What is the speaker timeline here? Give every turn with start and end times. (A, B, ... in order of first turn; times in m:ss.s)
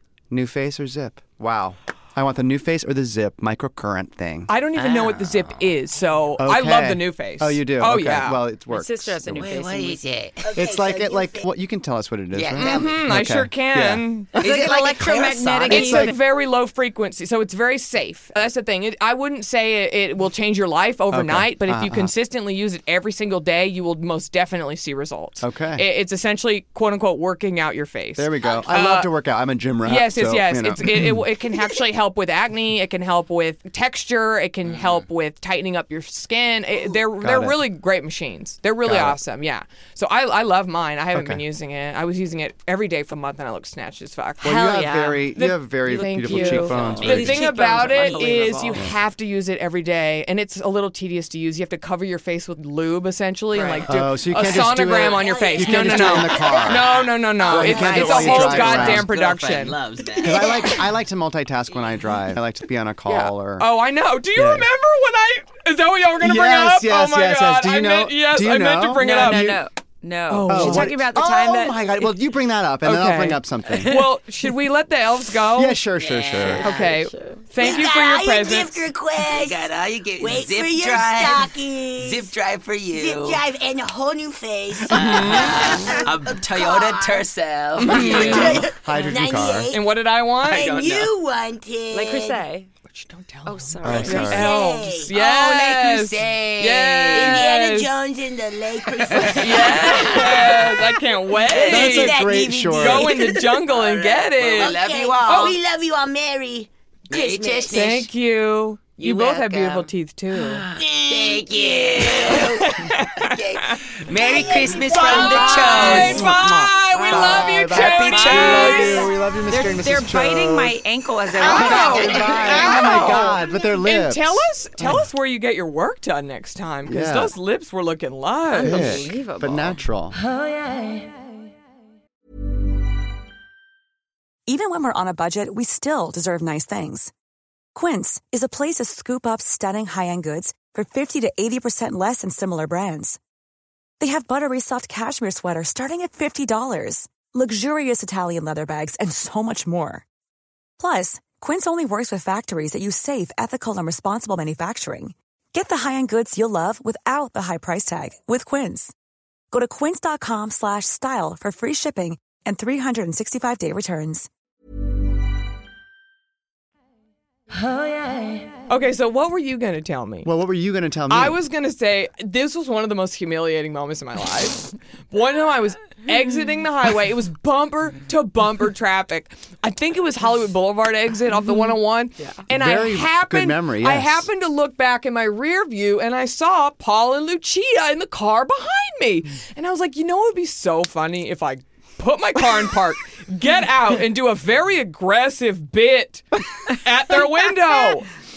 0:00.3-0:04.5 A
0:04.5-0:08.4 B
0:04.7-0:05.6 C
0:06.4-0:09.5 A
0:08.7-0:10.0 D
0:09.4-0:10.5 C
0:10.4-0:11.4 E
0:10.5-0:14.0 A
0:12.3-0:13.1 C
0:12.6-0:14.4 B
0:14.4-0:15.8 C
0:14.4-0:16.2 D
0:15.7-0:16.1 A
0:15.7-0:29.1 B
0:21.1-0:22.1 A
0:25.4-0:25.8 A
0:28.2-0:31.2 A
0:29.8-0:59.8 B
0:34.7-0:35.0 C
0:37.2-0:37.6 A
0:38.8-0:39.2 A
0:41.1-0:41.4 A
0:44.4-0:49.0 A
0:44.5-0:45.2 D
0:45.8-0:48.9 D
0:46.8-0:47.4 C
0:53.5-0:53.9 D
0:53.8-0:59.1 A
0:55.0-0:57.0 E
0:57.4-0:58.9 D
0:58.0-1:00.6 C
1:00.2-1:03.7 A
1:03.1-1:09.6 B
1:04.3-1:04.7 A
1:06.2-1:09.6 A
1:09.0-1:12.0 D
1:10.3-1:11.0 B
1:10.5-1:14.0 A
1:12.8-1:15.8 B
1:13.7-1:14.1 D
1:15.5-1:16.9 A
1:16.0-1:16.6 C
1:16.4-1:17.5 D
1:16.6-1:18.9 B
1:17.6-1:22.3 E
1:19.3-1:23.4 C
1:22.9-1:27.3 E
1:24.9-1:25.7 A
1:24.9-1:28.7 C
1:25.0-1:25.6 B
1:27.8-1:28.7 B
1:27.8-1:29.9 E
1:28.2-1:29.7 A
1:29.7-1:30.7 B
1:30.4-1:32.4 E
1:30.5-1:31.1 C
1:31.9-1:32.7 D
1:32.9-1:37.9 B
1:33.4-1:34.5 D
1:33.8-1:34.5 A
1:34.1-1:35.2 E
1:35.1-1:37.4 C
1:37.1-1:40.8 E
1:39.1-1:40.7 C
1:39.4-1:42.2 B
1:41.5-1:43.6 E
1:41.5-1:42.1 C
1:41.7-1:43.1 A
1:42.7-1:45.6 B
1:43.7-1:45.6 C
1:44.4-1:47.9 E
1:47.1-1:48.1 C
1:47.7-1:50.6 B
1:49.0-1:56.3 C
1:50.7-1:52.6 E
1:52.4-1:53.8 B
1:54.1-1:56.2 E
1:54.9-1:59.1 B
1:55.8-2:00.8 A
1:55.9-1:56.2 D
1:56.9-2:03.3 D
1:57.8-1:58.9 C
2:01.4-2:05.1 A
2:01.4-2:09.1 B
2:01.8-2:02.5 C
2:06.8-2:07.3 A
2:08.5-2:09.8 D
2:08.6-2:10.2 A
2:10.6-2:11.0 D
2:14.5-2:17.1 F
2:17.7-2:23.2 F
2:24.0-2:30.0 F
2:30.8-2:38.9 F
2:39.5-2:44.3 F
2:48.7-2:50.3 B
2:50.2-2:51.4 A
2:51.1-3:18.1 B
3:02.5-3:04.3 A